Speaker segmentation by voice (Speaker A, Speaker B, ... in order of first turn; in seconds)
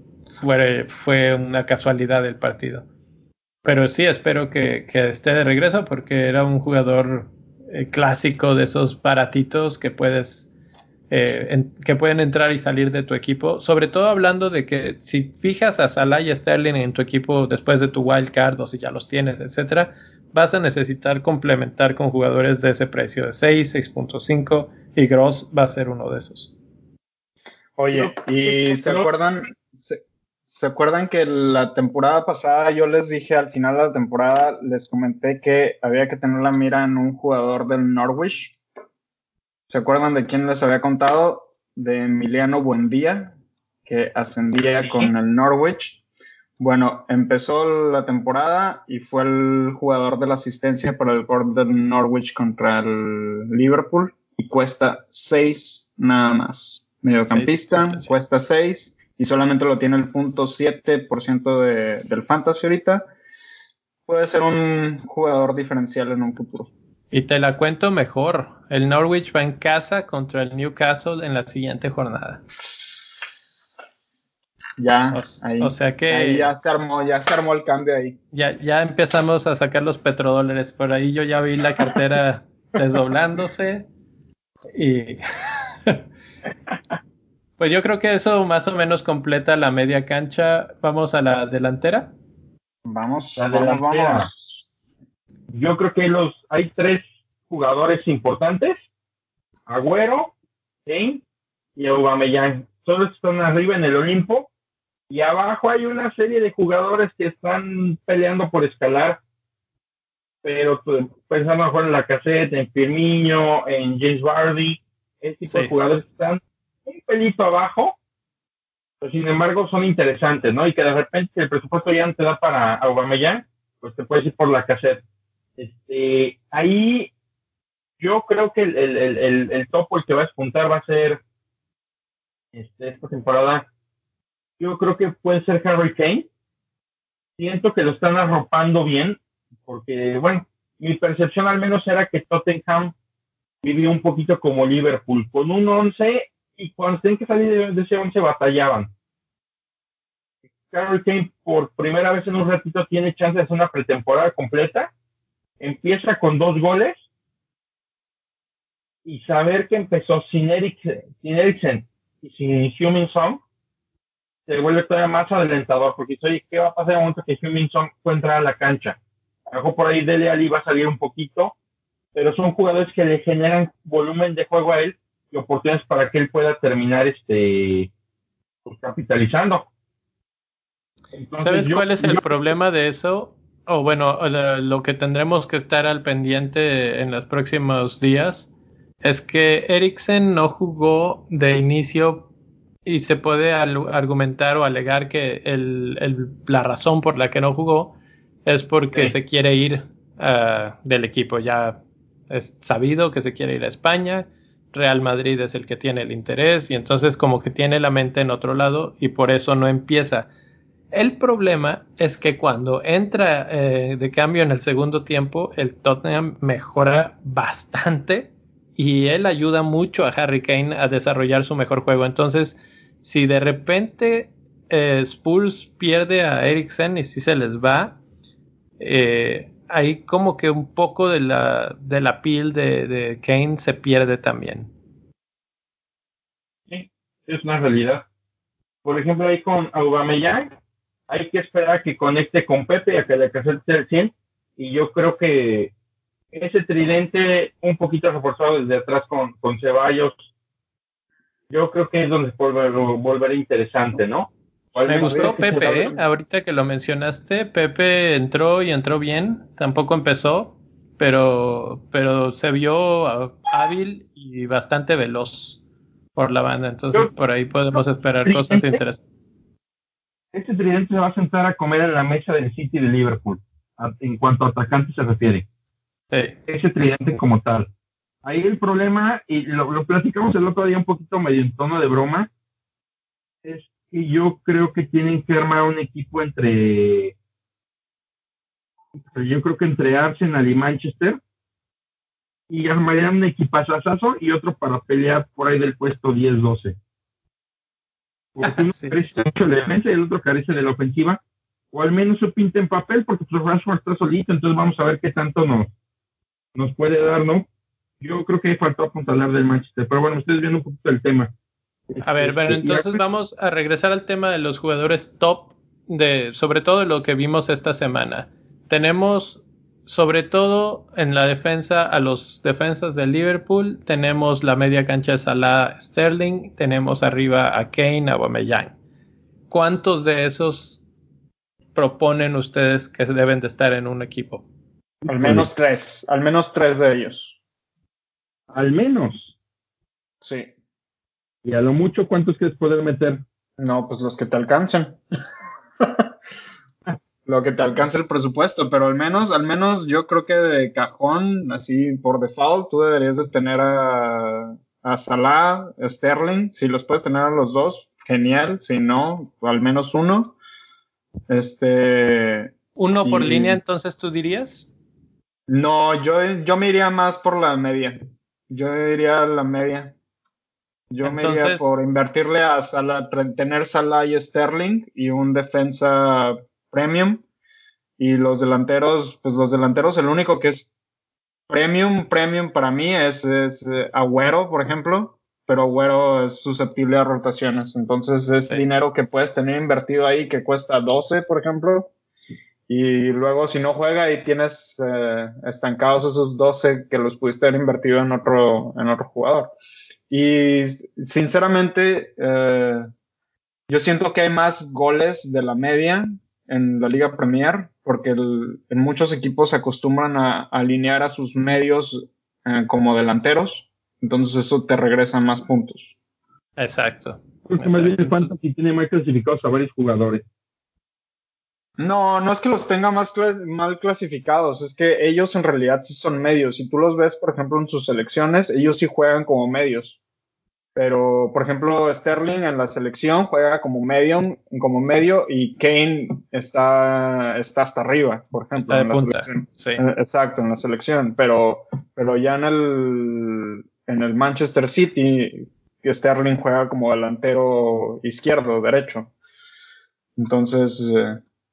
Speaker A: 0.3-2.9, 3.6-10.5, 11.1-26.5, 57.3-58.1, 67.1-72.4, 75.1-76.5, 78.3-83.9, 84.7-85.2, 87.6-92.1, 115.4-115.7, 181.4-188.5, 189.0-192.3, 192.8-210.3, 210.9-228.0, 228.8-234.7, 254.9-265.6, 266.2-269.0, 276.1-276.4, 298.4-299.0, 312.0-328.8, 329.5-330.8, 331.8-334.4, 362.8-364.7, 371.0-371.7, 416.6-418.3, 438.6-439.8
Speaker B: 27.8-38.6, 39.7-43.3, 43.9-46.0, 46.6-63.1, 64.1-66.7, 72.6-73.7, 74.8-78.2, 92.8-94.7, 254.9-256.0, 335.1-337.4, 340.2-340.5, 343.6-345.0, 345.8-346.1, 347.3-360.4, 361.3-363.6, 365.5-370.0, 370.9-377.2, 378.0-380.7, 381.5-391.9, 392.7-399.5, 400.1-402.9, 403.7-415.9, 421.8-430.0, 430.8-449.1, 450.2-451.2
Speaker C: 27.9-29.1, 44.8-45.1, 93.4-94.3, 95.5-98.8, 99.7-100.3, 100.9-101.2, 101.8-104.5, 105.1-109.2, 110.4-118.0, 119.0-125.0, 125.6-127.1, 128.0-131.2, 132.5-133.7, 134.6-136.3, 137.4-142.9, 143.6-148.9, 150.7-154.9, 155.6-157.0, 159.1-163.4, 164.5-171.5, 172.1-177.9, 178.7-179.7, 181.1-182.3, 236.7-238.1, 238.8-240.5, 241.1-245.7, 246.3-250.2, 251.5-255.9, 267.7-268.8, 270.3-275.5, 276.5-277.7, 278.2-282.3, 283.4-287.1, 289.1-291.2, 292.5-296.8, 298.4-301.2, 301.7-305.7, 306.6-307.5, 308.0-311.3, 311.9-313.0, 335.0-335.5, 338.5-339.3, 341.4-343.2, 417.5-420.2